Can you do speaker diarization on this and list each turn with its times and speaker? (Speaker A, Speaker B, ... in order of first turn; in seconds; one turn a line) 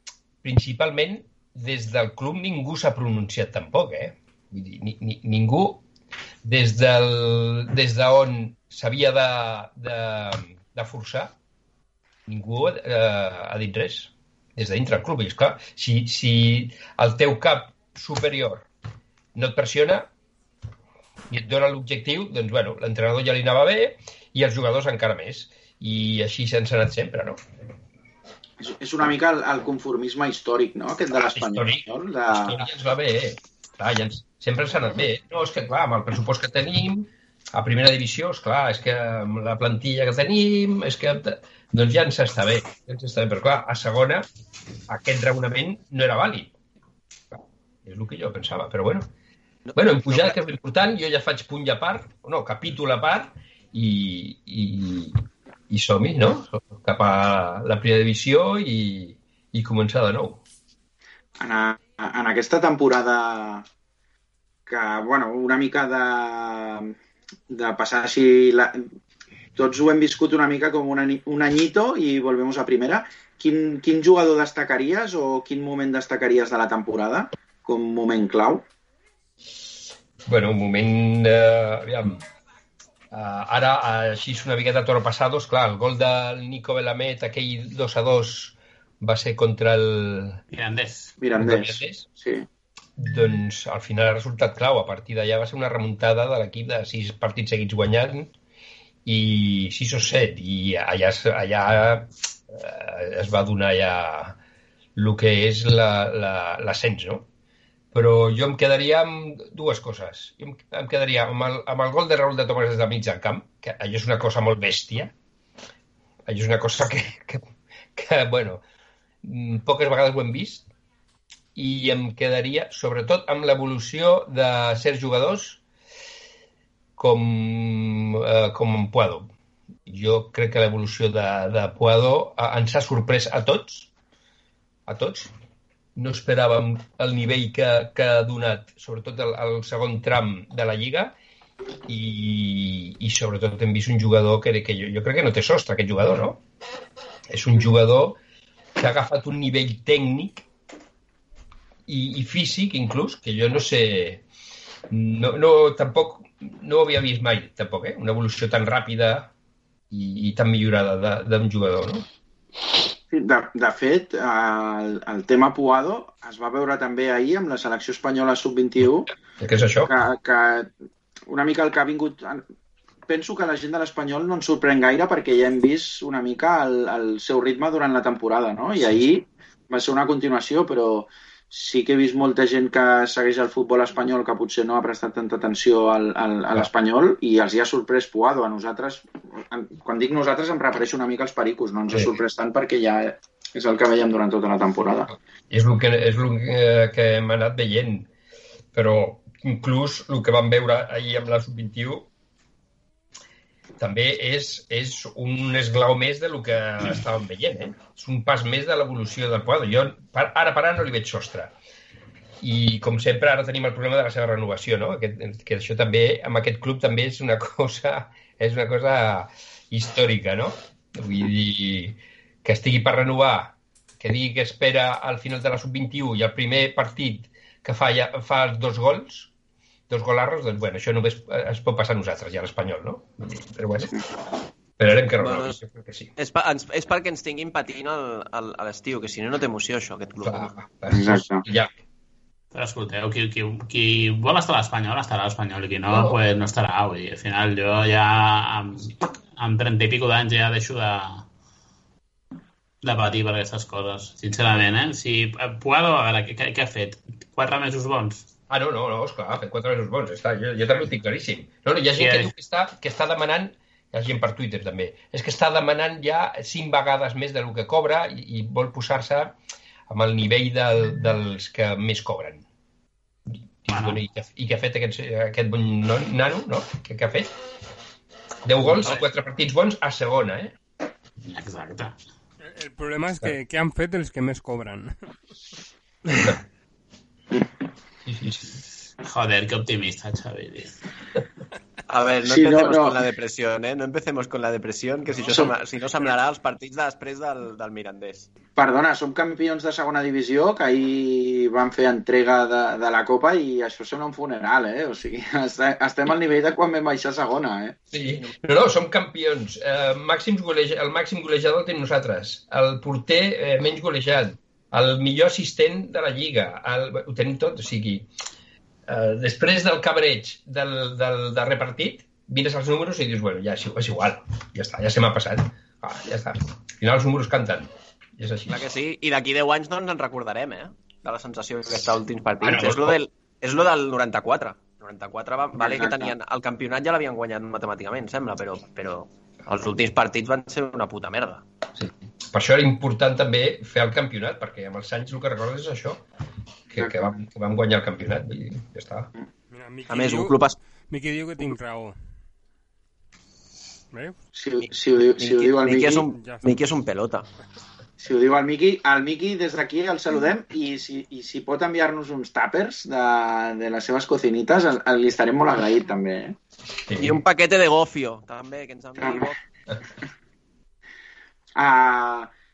Speaker A: 0.4-5.8
Speaker A: 6.4-11.3
Speaker A: 12.3-18.7
Speaker A: 19.3-20.1
Speaker A: 21.3-27.4
Speaker B: 28.6-32.7
Speaker A: 31.2-44.3
Speaker A: 44.9-46.5
Speaker A: 47.3-49.1
Speaker C: 49.6-50.4
Speaker A: 49.7-60.4
Speaker B: 61.4-63.6
Speaker B: 64.7-66.9
Speaker B: 67.5-68.8
Speaker B: 69.5-78.6
Speaker A: 80.2-82.2
Speaker A: 83.1-90.4
Speaker D: 90.5-91.1
Speaker B: 91.2-92.5
Speaker A: 91.4-92.1
Speaker A: 93.0-98.3
Speaker A: 99.0-104.4
Speaker A: 105.0-107.3
Speaker A: 107.9-115.1
Speaker A: 116.2-118.6
Speaker A: 119.2-120.7
Speaker A: 121.5-125.6
Speaker A: 127.0-129.3
Speaker A: 129.9-133.9
Speaker A: 134.9-135.3
Speaker A: 135.9-141.2
Speaker A: 141.9-146.4
Speaker A: 147.3-148.2
Speaker A: 148.8-150.4
Speaker A: 151.9-154.2
Speaker A: 154.9-159.3
Speaker A: 159.9-162.1
Speaker B: 163.1-169.1
Speaker A: 169.4-169.9
Speaker B: 169.9-170.7
Speaker B: 171.3-172.4
Speaker B: 173.1-195.1
Speaker A: 191.9-192.2
Speaker A: 195.5-198.1
Speaker A: 198.7-202.1
Speaker A: 203.8-211.5
Speaker A: 212.4-229.3
Speaker A: 229.9-234.0
Speaker A: 234.8-236.1
Speaker C: 235.2-235.6
Speaker C: 236.2-240.5
Speaker A: 240.2-241.7
Speaker B: 240.9-241.4
Speaker D: 242.5-251.3
Speaker A: 245.9-246.2
Speaker D: 252.8-258.3
Speaker A: 258.5-269.4
Speaker D: 262.0-262.3
Speaker A: 269.9-272.4
Speaker A: 273.3-277.3
Speaker D: 273.7-274.0
Speaker A: 278.4-280.5
Speaker D: 281.3-281.9
Speaker E: 282.4-284.9
Speaker A: 286.1-286.4
Speaker A: 288.1-288.5
Speaker D: 289.0-290.7
Speaker C: 291.9-298.3
Speaker B: 292.2-293.0
Speaker B: 298.6-307.8
Speaker A: 307.9-318.1
Speaker A: 318.9-328.6
Speaker C: 328.5-341.4
Speaker A: 332.4-333.0
Speaker B: 335.6-336.1
Speaker A: 341.8-346.0
Speaker A: 346.7-349.1
Speaker B: 346.8-347.2
Speaker E: 349.5-352.0
Speaker C: 349.9-350.6
Speaker E: 353.9-354.2
Speaker B: 354.4-356.1
Speaker C: 354.6-357.3
Speaker E: 356.1-356.6
Speaker B: 358.0-366.4
Speaker A: 366.9-367.2
Speaker C: 367.0-369.4
Speaker B: 369.0-369.2
Speaker B: 371.6-372.3